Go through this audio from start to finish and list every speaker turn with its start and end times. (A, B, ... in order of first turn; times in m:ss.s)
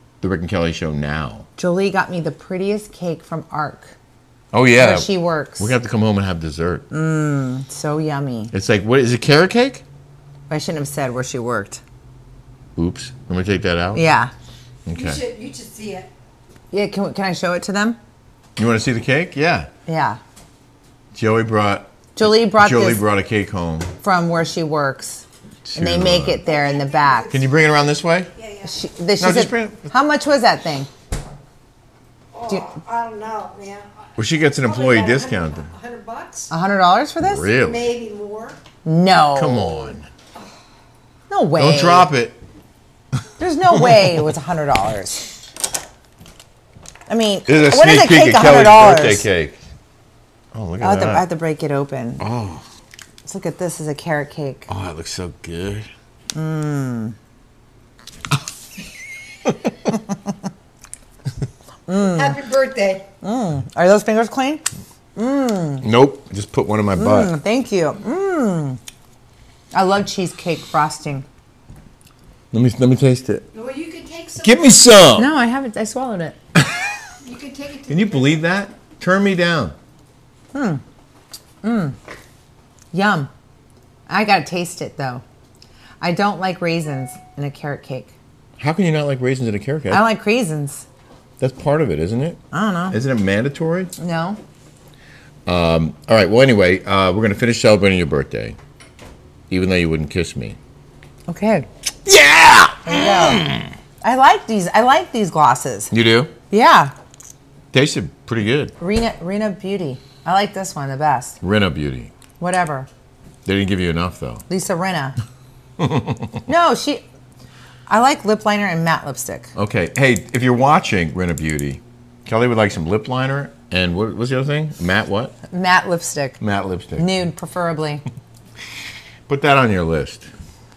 0:00.2-0:01.5 A
0:01.6-0:04.0 B
0:04.5-0:06.8 A
0:04.8-0:05.7 B
0:06.9-0:08.5 B
0:08.5-0:09.8 A
0:10.5-0:11.8 B
0:12.8-0:14.0 A
0:13.9-0:14.3 B
0:14.9-0:15.2 A
0:14.9-0:16.1 C
0:16.7-0:18.0 B
0:18.6-0:19.7 A
0:19.9-0:20.2 B
0:21.2-0:23.9 A
0:22.2-0:23.0 B
0:24.0-0:27.3 B
0:25.7-0:26.4 A
0:26.4-0:27.5 C
0:27.3-0:28.3 A
0:28.4-0:28.8 C
0:28.6-0:30.9 B
0:29.2-0:29.9 A
0:32.3-0:33.9 C
0:34.2-0:35.7 A
0:34.6-0:36.5 C
0:36.5-0:37.5 B
0:37.2-0:37.9 A
0:37.6-0:38.6 C
0:38.8-0:40.0 B
0:39.4-0:40.1 A
0:41.3-0:42.1 B
0:41.6-0:42.4 A
0:43.4-0:45.4 B
0:43.7-0:44.1 A
0:47.1-0:49.3 B
0:47.5-0:49.6 A
0:50.5-0:51.2 A
0:50.8-0:52.2 B
0:52.2-0:52.6 A
0:53.2-0:54.7 B
0:54.7-0:55.9 A
0:56.3-0:57.2 B
1:01.9-1:02.4 B
1:02.1-1:03.1 C
1:03.2-1:04.6 B
1:05.2-1:05.8 B
1:05.8-1:07.3 A
1:07.0-1:08.8 B
1:09.7-1:11.3 B
1:12.5-1:13.4 A
1:13.5-1:14.8 C
1:14.4-1:15.3 A
1:15.2-1:16.4 B
1:17.2-1:18.4 C
1:17.9-1:19.8 A
1:20.5-1:20.8 B
1:21.6-1:22.0 B
1:22.9-1:23.3 B
1:24.1-1:25.2 B
1:26.0-1:28.1 B
1:28.6-1:30.0 A
1:29.9-1:30.8 B
1:31.4-1:32.4 A
1:32.5-1:33.0 B
1:32.9-1:33.9 A
1:34.0-1:34.4 B
1:35.5-1:38.6 A
1:39.5-1:40.6 A
1:41.3-1:41.7 B
1:42.0-1:43.7 A
1:42.8-1:43.4 B
1:44.0-1:45.9 B
1:45.9-1:46.3 A
1:46.5-1:46.9 B
1:47.7-1:48.7 A
1:48.8-1:51.4 B
1:51.4-1:52.1 A
1:52.4-1:52.9 B
1:53.5-1:54.4 A
1:54.5-1:55.2 B
1:55.8-1:56.4 A
1:56.5-1:57.0 B
1:57.9-1:59.5 B
1:59.6-2:05.3 A
2:05.5-2:06.4 B
2:06.4-2:07.1 A
2:07.0-2:08.0 B
2:09.3-2:10.3 A